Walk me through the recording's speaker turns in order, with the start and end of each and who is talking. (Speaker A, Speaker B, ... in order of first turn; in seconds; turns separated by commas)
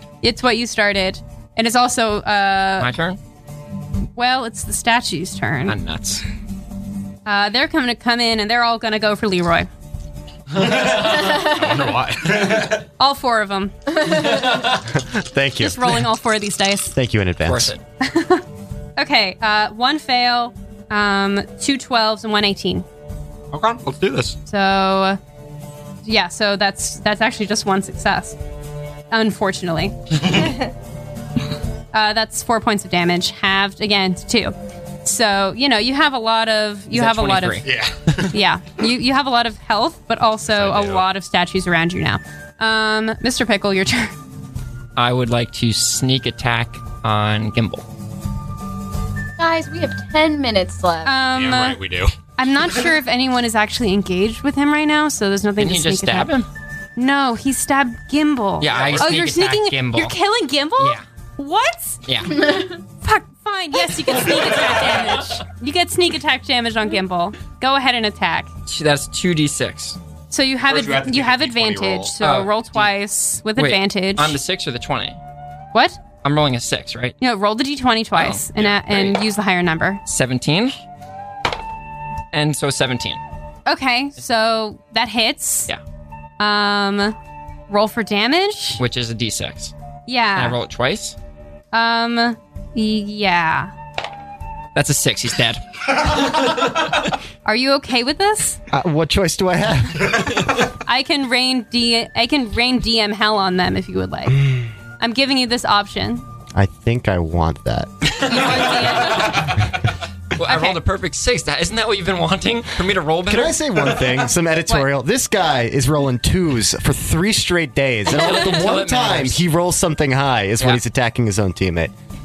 Speaker A: 0.2-2.9, Speaker B: 2.8-3.2, Speaker A: 4.2-5.8, Speaker B: 5.7-6.2, Speaker A: 7.3-9.7, Speaker B: 10.6-11.4, Speaker C: 10.6-12.8, Speaker D: 11.4-11.8, Speaker A: 13.0-14.0, Speaker B: 14.1-14.8, Speaker E: 14.9-16.1, Speaker A: 15.6-16.9, Speaker E: 16.9-17.7, Speaker B: 17.4-17.8, Speaker A: 18.0-18.4, Speaker A: 19.0-22.9, Speaker C: 23.5-24.4, Speaker A: 24.5-25.2, Speaker A: 26.0-28.4, Speaker A: 29.1-30.2, Speaker C: 30.2-30.5, Speaker A: 31.9-34.5, Speaker A: 35.0-37.7, Speaker B: 36.9-37.7, Speaker C: 37.6-38.3, Speaker A: 38.3-44.1, Speaker C: 40.5-41.0, Speaker B: 45.0-47.9, Speaker D: 49.4-51.2, Speaker A: 51.0-51.8, Speaker C: 51.3-52.1, Speaker A: 52.4-56.3, Speaker C: 52.6-52.9, Speaker B: 55.6-56.5, Speaker A: 57.0-68.5, Speaker B: 58.6-60.1, Speaker C: 58.6-59.3, Speaker B: 60.8-61.0, Speaker B: 62.1-62.5, Speaker B: 68.7-70.0, Speaker A: 70.3-74.4, Speaker C: 70.6-72.2, Speaker B: 72.2-72.9, Speaker B: 73.6-75.2, Speaker A: 75.7-76.0, Speaker B: 76.2-77.2, Speaker A: 77.2-80.0, Speaker B: 78.1-79.2, Speaker B: 80.1-80.8, Speaker B: 82.3-83.2, Speaker A: 83.7-85.7, Speaker A: 86.4-87.2, Speaker A: 87.7-88.8, Speaker B: 88.8-89.7, Speaker A: 90.1-90.6, Speaker B: 90.4-91.2, Speaker A: 91.7-93.7, Speaker B: 94.8-96.4, Speaker A: 97.5-98.6, Speaker E: 98.7-100.3, Speaker A: 100.9-104.5, Speaker A: 105.0-106.2, Speaker E: 106.5-107.9, Speaker B: 108.1-109.5, Speaker A: 108.3-109.5, Speaker C: 109.1-109.6, Speaker B: 110.4-114.1, Speaker A: 110.4-110.8, Speaker E: 113.3-121.9, Speaker B: 118.1-119.4